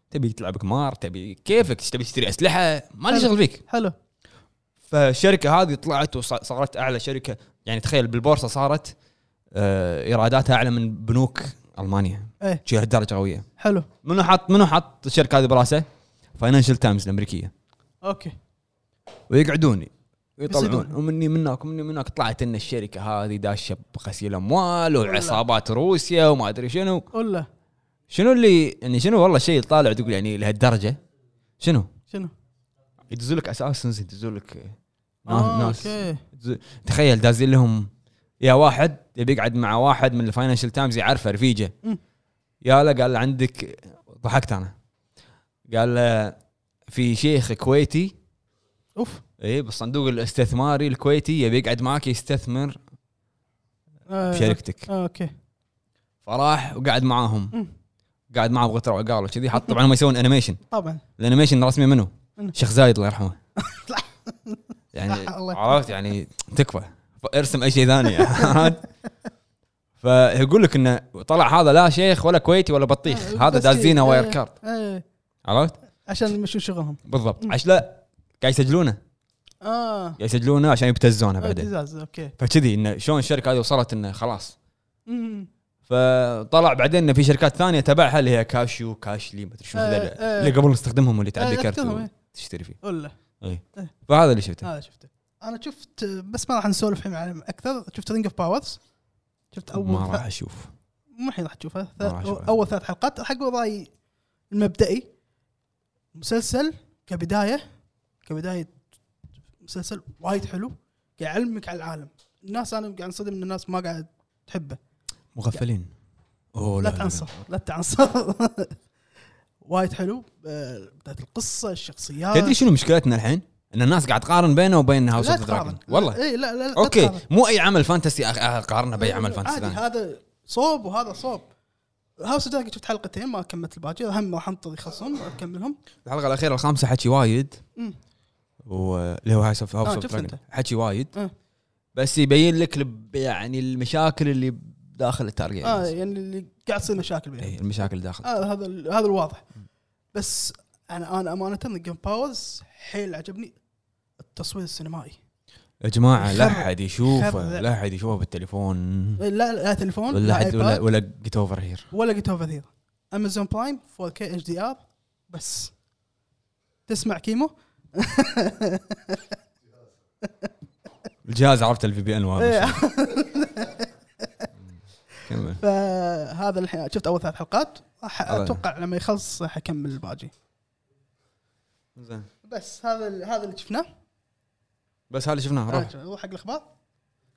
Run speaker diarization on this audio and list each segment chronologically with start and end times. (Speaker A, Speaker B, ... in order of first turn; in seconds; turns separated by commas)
Speaker A: 0.1-3.6, Speaker B: 3.1-3.9, Speaker A: 4.9-8.9, Speaker A: 9.5-13.4, Speaker B: 13.6-13.9, Speaker A: 14.0-15.8, Speaker A: 16.4-17.5, Speaker B: 18.0-18.3, Speaker A: 19.3-27.1, Speaker B: 20.5-20.9, Speaker B: 25.0-25.4, Speaker B: 27.1-27.5, Speaker A: 28.1-31.0, Speaker A: 31.6-31.9, Speaker A: 33.1-34.7, Speaker A: 35.2-37.9, Speaker B: 35.3-36.2, Speaker A: 38.4-41.7, Speaker A: 42.6-44.7, Speaker A: 45.7-46.4, Speaker A: 46.9-48.1, Speaker B: 49.0-49.2, Speaker A: 49.4-52.8, Speaker B: 54.1-55.3, Speaker A: 54.3-54.9, Speaker A: 56.2-57.5, Speaker A: 58.3-60.6, Speaker B: 60.7-61.0, Speaker A: 61.2-63.4, Speaker B: 63.6-65.8, Speaker A: 64.9-68.8, Speaker B: 68.2-68.8, Speaker A: 70.0-74.5, Speaker B: 73.1-75.0, Speaker A: 75.5-75.7, Speaker B: 76.1-77.5, Speaker A: 77.1-79.0, Speaker B: 79.6-80.2, Speaker A: 80.2-81.7, Speaker B: 81.4-82.3, Speaker A: 82.4-84.5, Speaker B: 85.1-85.5, Speaker A: 85.9-92.8, Speaker B: 89.8-90.6, Speaker B: 91.4-92.1, Speaker B: 92.8-93.1, Speaker A: 93.4-94.7, Speaker B: 94.6-98.8, Speaker B: 99.5-100.2, Speaker A: 99.7-100.7, Speaker B: 101.2-103.9, Speaker A: 102.0-102.5, Speaker B: 104.5-105.1, Speaker B: 106.1-107.6, Speaker B: 108.2-108.8, Speaker B: 109.6-114.8, Speaker A: 115.3-115.9, Speaker A: 116.5-117.3, Speaker B: 116.8-118.8, Speaker B: 119.6-122.6, Speaker A: 122.3-126.2, Speaker B: 125.2-127.2, Speaker A: 126.8-129.8, Speaker B: 129.0-131.5, Speaker B: 132.2-135.8, Speaker A: 136.0-137.6, Speaker A: 138.7-141.1, Speaker B: 139.8-140.4, Speaker A: 141.9-145.9, Speaker B: 145.6-147.6, Speaker A: 147.4-148.3, Speaker B: 148.2-149.4, Speaker B: 150.1-153.6, Speaker B: 154.2-155.2, Speaker A: 155.8-159.2, Speaker B: 156.2-157.6, Speaker B: 159.2-160.8, Speaker A: 160.1-161.9, Speaker B: 161.9-165.7, Speaker B: 166.9-169.2, Speaker B: 170.2-170.5, Speaker A: 171.2-172.8, Speaker B: 172.4-174.5, Speaker A: 175.2-175.6, Speaker B: 175.6-180.3, Speaker A: 178.3-178.6, Speaker A: 181.9-182.3, Speaker B: 182.4-183.9, Speaker A: 185.1-185.9, Speaker B: 185.7-186.7